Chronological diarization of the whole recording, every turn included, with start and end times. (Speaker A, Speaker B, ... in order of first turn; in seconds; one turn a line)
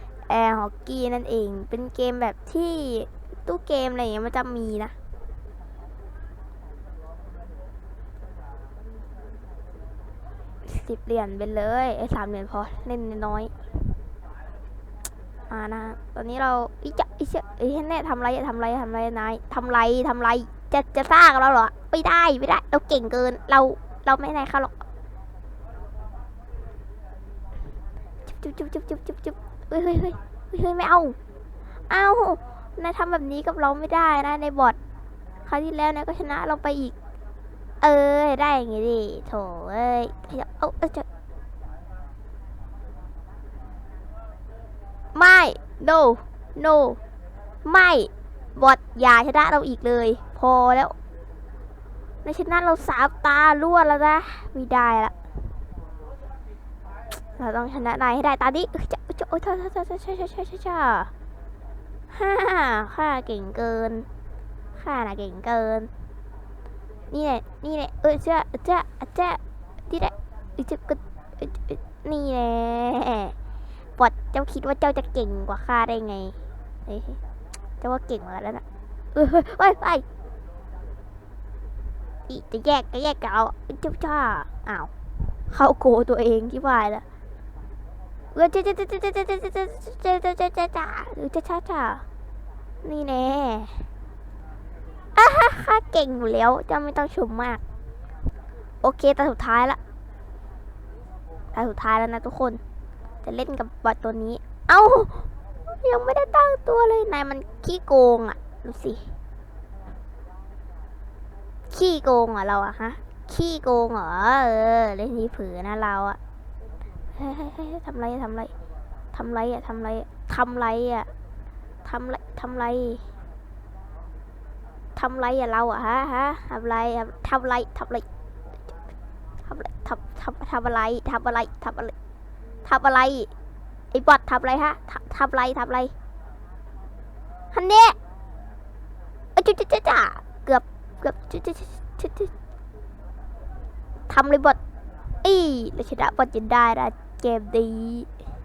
Speaker A: 0.3-4.9
Speaker A: 10.6-13.5
Speaker A: 15.5-24.8
Speaker A: 28.3-31.2
Speaker A: 31.9-34.8
Speaker A: 35.5-36.9
Speaker A: 37.8-41.0
Speaker A: 45.1-47.0
Speaker A: 47.6-50.9
Speaker A: 52.2-55.1
Speaker A: 57.4-61.1
Speaker A: 62.1-64.1
Speaker A: 64.8-65.9
Speaker A: 67.1-73.3
Speaker A: 74.0-77.2
Speaker A: 77.8-78.6
Speaker A: 79.1-80.0
Speaker A: 82.3-84.9
Speaker A: 85.5-87.0
Speaker A: 88.3-92.0
Speaker A: 92.8-93.8
Speaker A: 95.2-97.6
Speaker A: 98.8-99.8
Speaker A: 101.5-102.6
Speaker A: 103.2-109.1
Speaker A: 111.7-116.2
Speaker A: 117.2-118.5
Speaker A: 119.1-121.1
Speaker A: 121.8-123.0
Speaker A: 125.0-128.0
Speaker A: 129.4-131.9
Speaker A: 132.6-133.3
Speaker A: 133.9-135.9
Speaker A: 137.5-137.9
Speaker A: 139.3-142.3
Speaker A: 144.1-144.6
Speaker A: 145.2-148.1